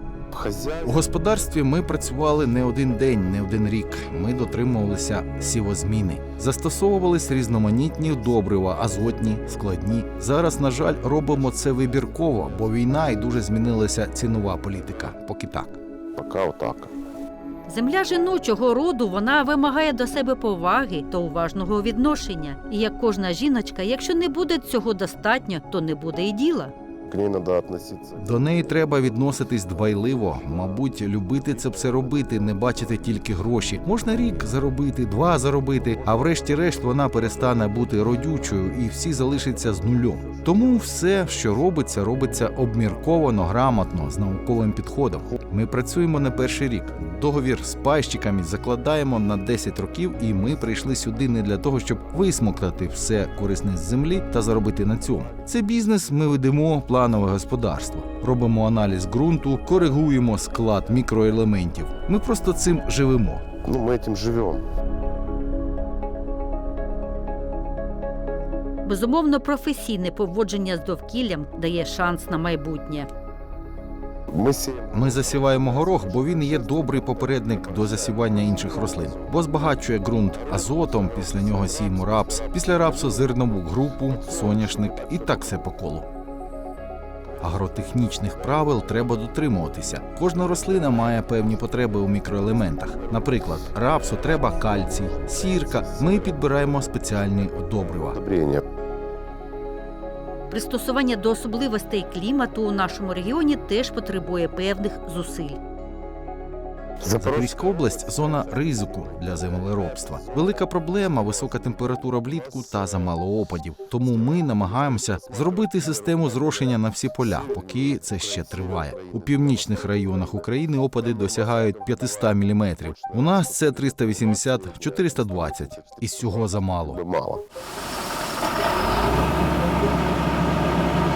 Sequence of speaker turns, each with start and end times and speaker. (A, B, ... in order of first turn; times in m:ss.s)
0:00.3-0:01.1 A
0:00.8-0:15.8 B
0:11.0-0:13.0 A
0:16.2-0:16.9 A
0:17.7-0:26.7 C
0:27.1-0:34.6 A
0:28.2-1:03.4 B
0:35.4-0:45.4 A
0:50.3-0:51.0 A
1:03.6-1:04.6 A
1:08.8-1:13.1 C
1:14.3-1:25.7 A
1:14.9-1:26.0 B
1:27.4-1:38.2 B
1:28.3-1:28.9 A
1:30.3-1:38.6 A
1:40.5-1:45.6 C
1:47.0-1:53.2 A
1:47.2-2:07.0 B
1:54.0-2:07.4 A